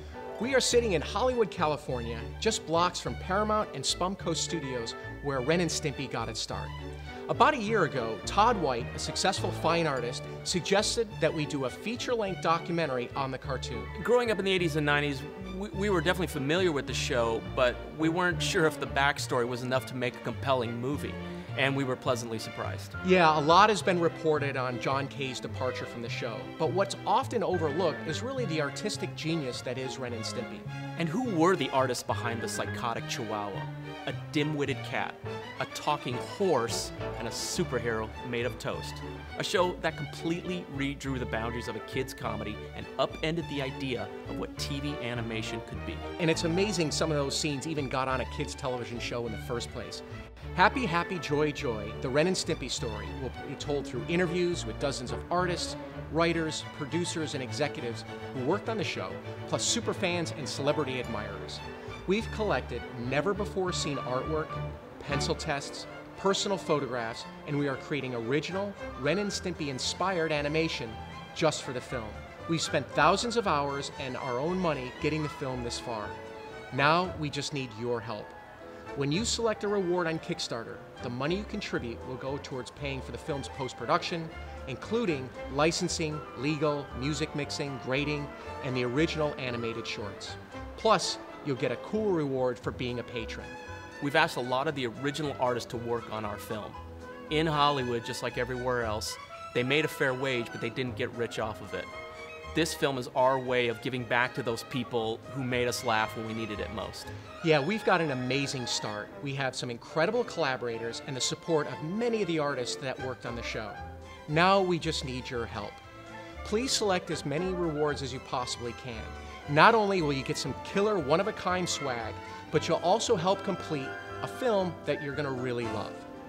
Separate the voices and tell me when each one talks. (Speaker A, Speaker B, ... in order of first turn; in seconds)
Speaker A: 0.4-6.7, 7.3-13.9, 23.0-30.7, 46.2-50.0, 50.5-76.2, 76.7-78.3, 79.0-93.5, 107.4-115.8, 116.4-126.1
Speaker B: 14.0-22.9, 31.0-46.0, 94.0-96.8, 97.3-101.9, 102.5-107.1